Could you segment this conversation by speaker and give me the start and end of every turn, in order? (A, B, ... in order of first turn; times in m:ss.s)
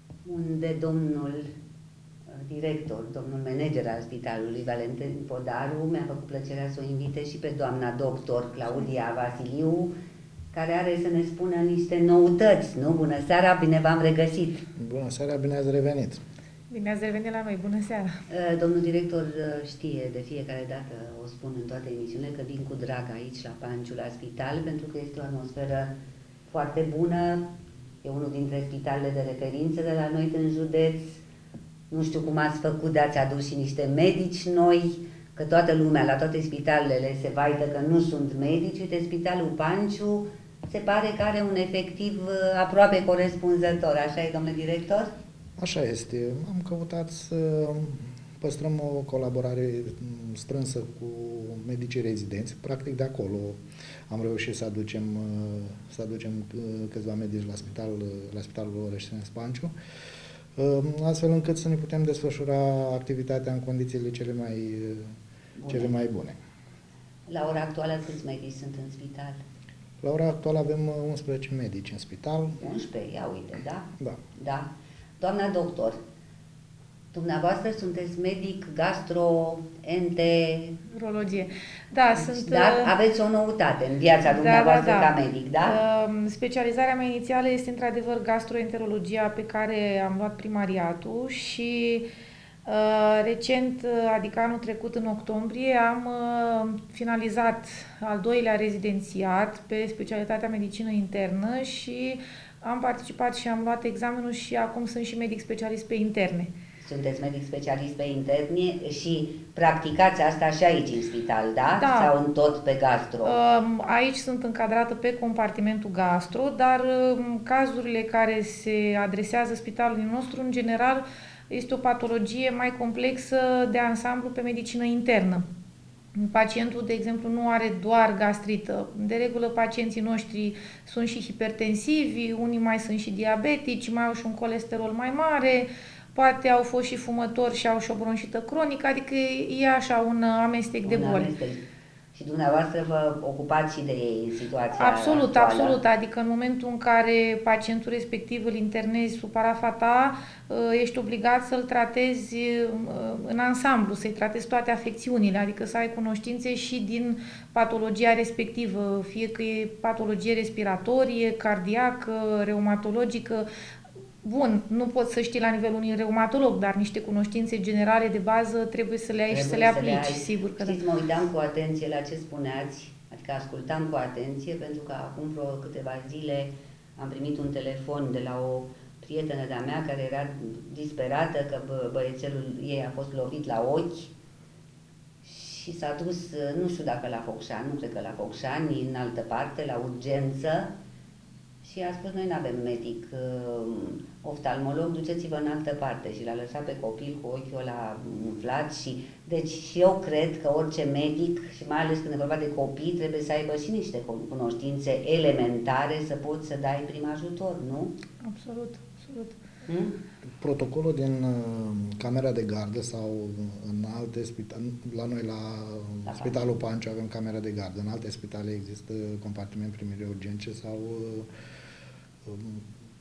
0:00.2-0:01.5 A
0:02.3-0:09.9 A
0:10.5-0:14.6 A
0:14.8-0:16.2 B
0:16.7-0:18.2 C
0:18.3-0:25.9 A
0:26.5-0:27.5 A
0:28.0-0:31.2 A
0:31.9-0:45.1 A
0:45.6-0:53.6 B
0:54.1-0:59.7 B
1:00.5-1:05.1 B
1:05.6-1:06.0 A
1:05.7-1:06.4 B
1:07.3-1:09.4 A
1:10.0-1:12.6 B
1:12.6-1:16.0 A
1:17.1-1:20.8 A
1:20.9-1:22.9 C
1:22.2-1:25.8 A
1:24.3-1:25.1 C
1:25.7-1:32.0 C
1:32.6-1:46.5 C
1:46.8-1:53.4 A
1:51.8-1:52.1 C
1:53.2-2:05.4 C
2:06.1-2:21.3 C
2:20.8-2:21.6 A
2:22.1-2:25.8 A
2:24.8-2:43.5 C
2:44.2-2:50.8 C
2:49.3-3:04.1 A
3:05.2-3:10.7 A
3:11.6-3:27.9 A
3:28.2-3:29.4 C
3:29.6-3:30.0 A
3:30.4-3:41.3 B
3:36.0-3:36.5 A
3:42.2-3:42.7 B